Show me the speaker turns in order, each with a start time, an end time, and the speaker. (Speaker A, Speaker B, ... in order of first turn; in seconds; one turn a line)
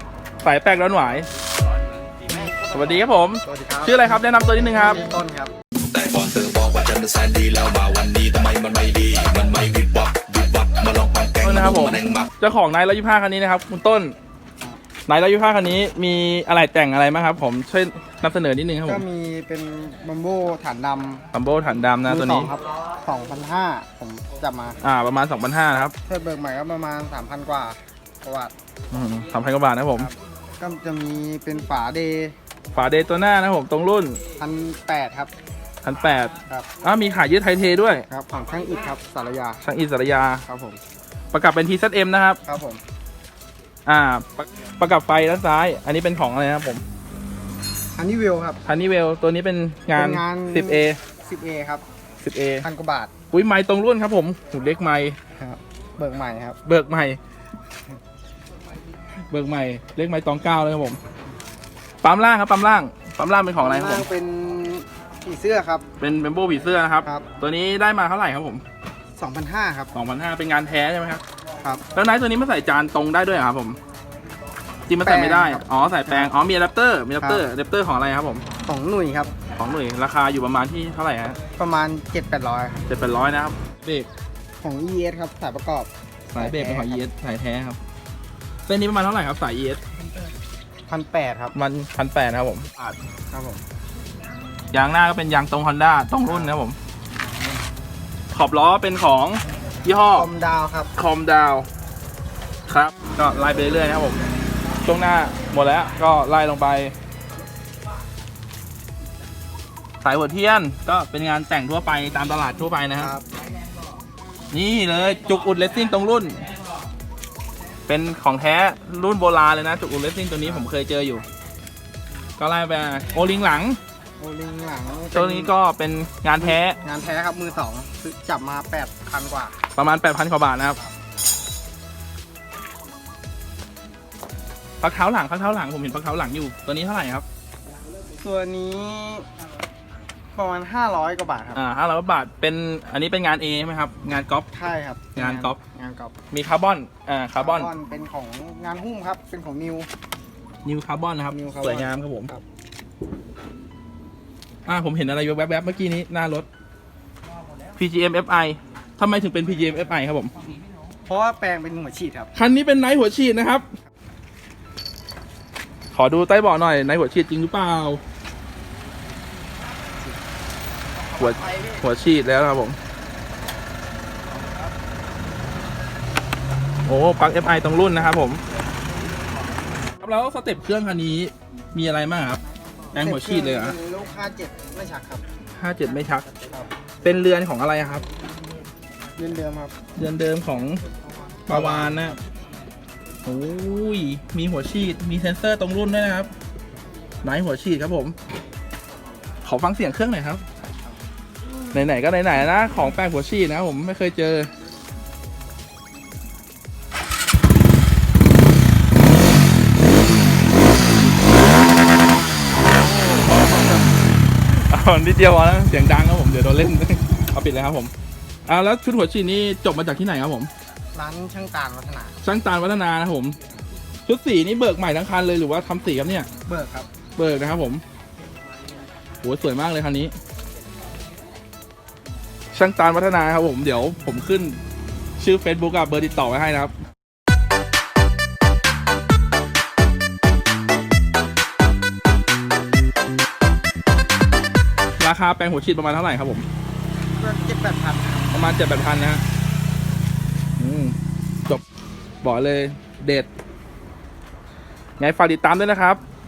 Speaker A: 0.4-1.3
Speaker A: 2.6-5.0
Speaker B: 3.5-4.0
Speaker B: 4.6-5.5
Speaker C: 5.9-12.3
Speaker A: 11.4-14.2
Speaker A: 15.1-19.1
Speaker B: 18.9-21.3
Speaker A: 21.3-22.5
Speaker B: 22.1-24.8
Speaker A: 24.8-25.9
Speaker B: 26.0-28.5
Speaker A: 28.9-30.1
Speaker B: 30.0-32.4
Speaker A: 32.7-34.2
Speaker B: 34.4-35.3
Speaker A: 35.8-38.1
Speaker B: 38.1-39.6
Speaker A: 39.6-40.5
Speaker B: 40.5-40.8
Speaker A: 41.3-42.4
Speaker B: 42.5-42.8
Speaker A: 43.9-46.8
Speaker B: 48.0-48.6
Speaker A: 48.7-51.0
Speaker B: 50.0-51.8
Speaker A: 52.2-52.6
Speaker B: 52.6-53.1
Speaker A: 53.3-55.2
Speaker B: 55.4-56.6
Speaker A: 56.6-57.2
Speaker A: 59.3-61.0
Speaker A: 62.0-64.1
Speaker B: 63.6-65.9
Speaker A: 66.0-68.6
Speaker B: 69.2-69.9
Speaker A: 69.9-71.2
Speaker A: 71.9-73.8
Speaker A: 74.9-78.5
Speaker B: 75.0-76.3
Speaker B: 77.2-77.5
Speaker B: 78.7-79.3
Speaker A: 79.6-81.4
Speaker B: 81.6-82.9
Speaker A: 82.9-84.1
Speaker B: 84.6-87.0
Speaker A: 86.3-87.8
Speaker A: 88.7-89.8
Speaker B: 90.0-90.3
Speaker B: 90.9-91.5
Speaker A: 91.5-92.9
Speaker B: 93.3-93.6
Speaker A: 94.7-96.8
Speaker B: 96.3-96.5
Speaker A: 98.3-100.3
Speaker B: 100.1-100.9
Speaker A: 101.0-101.7
Speaker A: 102.7-104.2
Speaker A: 104.8-106.9
Speaker A: 110.0-113.1
Speaker B: 113.0-113.3
Speaker A: 114.5-116.4
Speaker A: 117.9-121.3
Speaker A: 122.4-123.8
Speaker B: 124.2-125.5
Speaker A: 125.1-126.8
Speaker B: 126.4-129.6
Speaker A: 129.8-130.8
Speaker A: 134.8-137.2
Speaker B: 138.2-139.3
Speaker B: 140.3-141.7
Speaker A: 141.6-144.5
Speaker B: 144.5-146.1
Speaker A: 145.2-145.6
Speaker A: 146.3-147.7
Speaker B: 147.4-149.9
Speaker A: 150.7-152.3
Speaker B: 151.3-152.4
Speaker A: 154.7-156.5
Speaker A: 157.8-160.3
Speaker B: 161.1-162.3
Speaker A: 162.3-163.7
Speaker A: 165.9-168.0
Speaker A: 171.2-172.8
Speaker B: 171.5-171.8
Speaker A: 176.9-178.4
Speaker A: 180.0-182.4
Speaker A: 182.9-183.8
Speaker B: 182.9-185.2
Speaker A: 185.6-186.3
Speaker B: 186.3-186.7
Speaker A: 187.0-188.1
Speaker B: 189.2-189.8
Speaker A: 190.0-190.8
Speaker B: 191.4-192.1
Speaker A: 191.5-192.2
Speaker A: 193.2-196.3
Speaker A: 197.2-198.2
Speaker A: 199.4-200.4
Speaker A: 201.7-204.5
Speaker A: 213.3-213.7
Speaker A: 214.5-217.9
Speaker A: 218.5-220.5
Speaker B: 220.9-222.2
Speaker A: 222.2-223.4
Speaker A: 224.1-226.3
Speaker B: 226.5-226.9
Speaker A: 227.2-227.8
Speaker A: 229.2-230.2
Speaker A: 232.5-234.6
Speaker A: 235.2-236.7
Speaker A: 245.0-246.5
Speaker B: 247.2-248.4
Speaker A: 248.3-249.2
Speaker A: 250.6-251.0
Speaker A: 252.2-253.3
Speaker A: 255.0-256.0